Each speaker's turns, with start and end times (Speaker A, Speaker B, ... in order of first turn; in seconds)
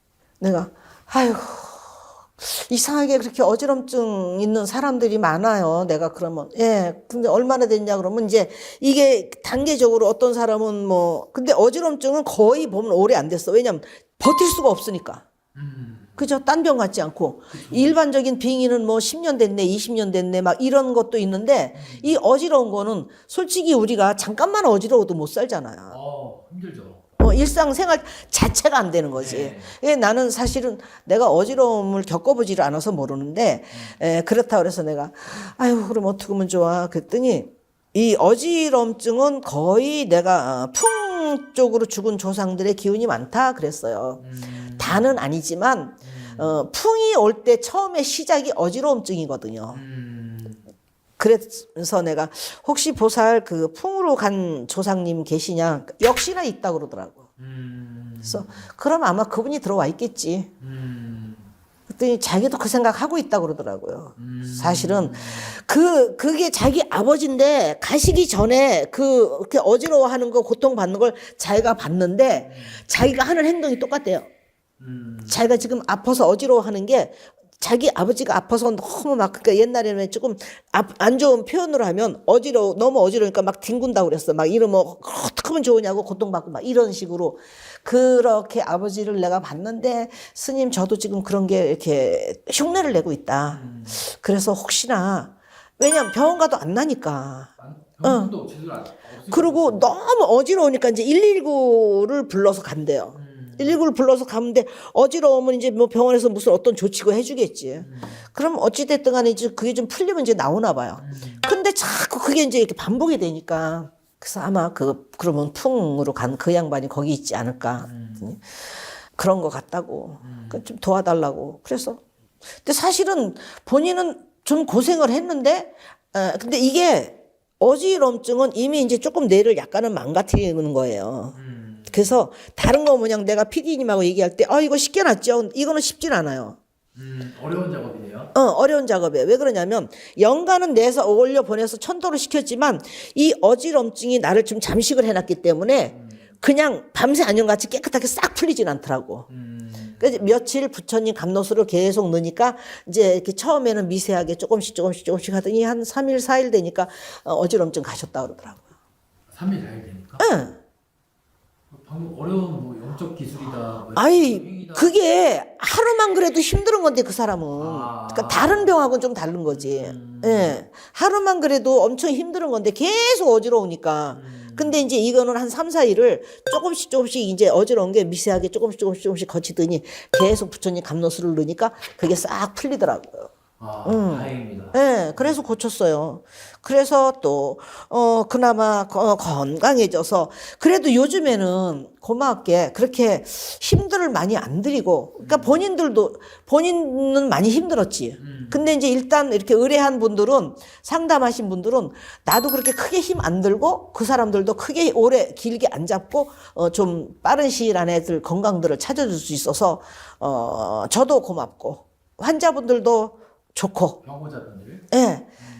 Speaker A: 0.4-15.2, 16.2-25.9, 27.2-44.2, 44.8-49.8, 51.2-57.2, 58.2-60.5, 61.9-74.3, 75.3-97.5, 98.0-98.3, 99.3-118.5, 119.2-122.0, 122.6-131.3, 131.9-136.6, 138.3-149.3, 150.0-158.6, 160.2-160.6, 163.9-183.3, 183.8-214.0, 214.9-215.3
Speaker B: 15.5-16.2, 17.5-18.0, 21.7-22.1, 25.9-27.0, 29.1-29.7, 44.2-45.2, 46.0-46.5, 49.7-50.6, 57.4-58.6, 60.6-61.5, 64.2-65.5, 74.8-75.5, 93.4-94.0, 97.6-99.9, 103.1-103.8, 107.8-108.2, 111.0-111.5, 117.8-118.3, 120.2-120.6, 131.3-132.2, 136.9-138.3, 145.9-146.2, 149.3-150.2, 159.3-160.2, 161.7-164.9, 167.5-168.7, 169.4-170.6, 174.1-174.8, 183.6-185.4, 195.2-195.6, 198.2-198.7, 214.0-214.8